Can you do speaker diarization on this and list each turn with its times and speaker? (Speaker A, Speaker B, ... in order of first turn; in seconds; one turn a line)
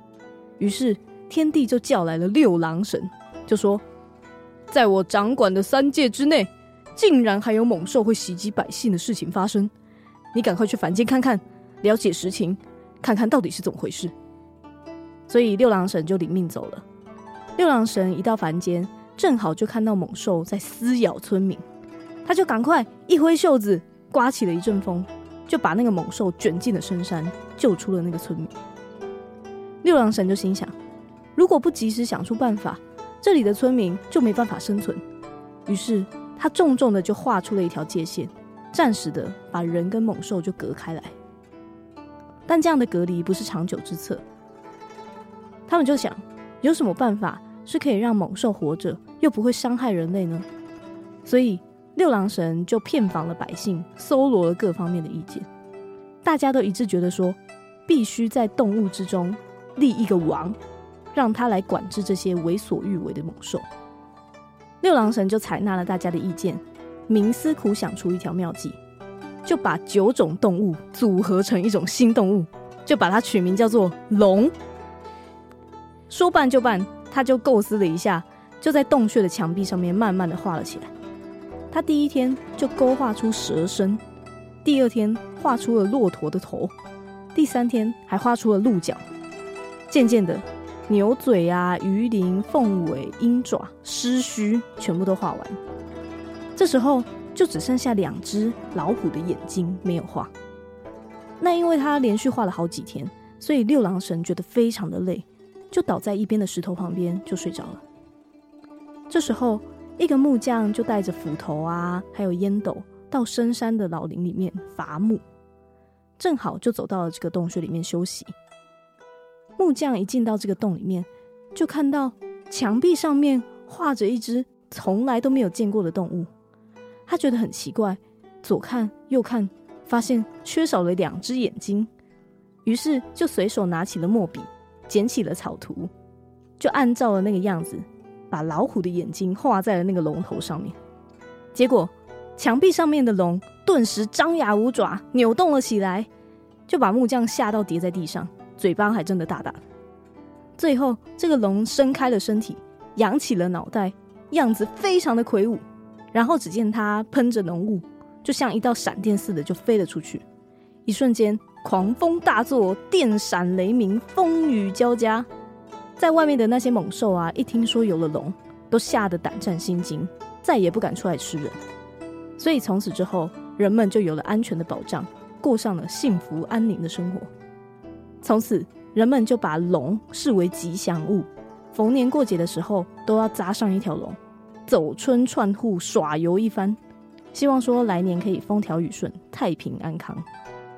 Speaker A: 0.6-3.8
Speaker A: 4.7-9.7
Speaker A: 10.3-14.1
Speaker A: 15.3-16.8
Speaker A: 17.6-21.6
Speaker A: 22.2-28.5
Speaker A: 29.8-30.7
Speaker A: 31.3-35.0
Speaker A: 35.6-41.1
Speaker A: 42.5-44.2
Speaker A: 45.7-50.5
Speaker A: 51.2-55.5
Speaker A: 56.2-60.5
Speaker A: 61.1-63.6
Speaker A: 64.8-68.8
Speaker A: 69.4-74.5
Speaker A: 76.1-80.9
Speaker A: 81.7-84.0
Speaker A: 84.6-86.7
Speaker A: 87.3-89.0
Speaker A: 89.9-95.6
Speaker A: 96.5-100.3
Speaker A: 101.4-107.8
Speaker A: 109.1-115.2
Speaker A: 116.2-118.3
Speaker A: 119.6-126.3
Speaker A: 127.1-131.9
Speaker A: 132.6-135.9
Speaker A: 136.6-140.8
Speaker A: 141.5-146.1
Speaker A: 146.7-149.6
Speaker A: 150.6-155.6
Speaker A: 156.1-160.2
Speaker A: 160.8-165.3
Speaker A: 166.0-171.6
Speaker A: 172.4-177.3
Speaker A: 178.2-186.8
Speaker A: 187.3-190.2